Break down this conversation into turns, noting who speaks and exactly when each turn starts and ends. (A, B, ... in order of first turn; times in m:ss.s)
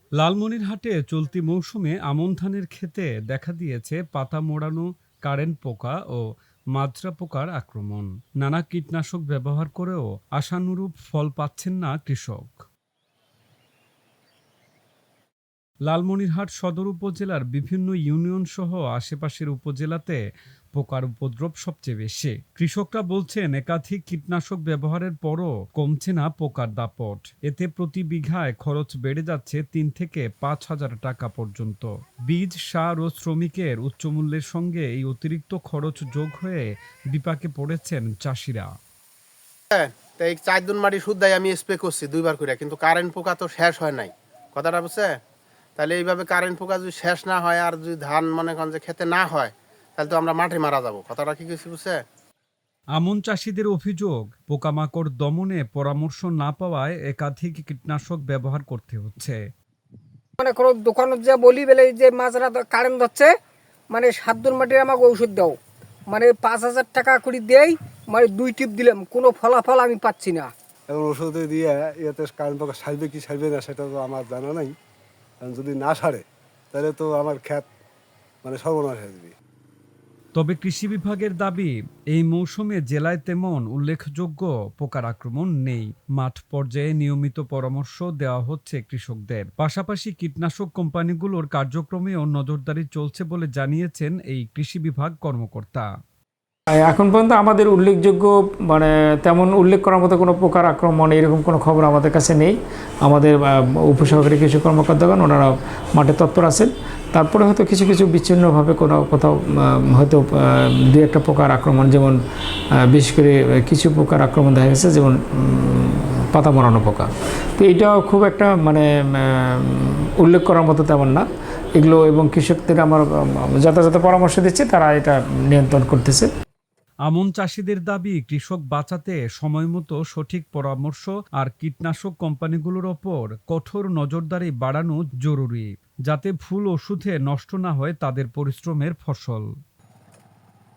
0:00.2-0:06.2 A
0:06.7-0:12.6 A
0:15.8-0:20.2 A
0:20.7-0:38.7 A
0:39.7-0:45.2 B
0:45.8-0:52.0 B
0:53.0-0:59.4 A
1:00.4-1:03.3 C
1:03.9-1:05.6 C
1:06.1-1:10.5 C
1:10.9-1:14.7 D
1:15.4-1:17.7 D
1:18.4-1:19.4 D
1:20.4-1:35.9 A
1:36.8-1:52.2 E
1:52.8-2:06.3 E
2:07.0-2:19.5 A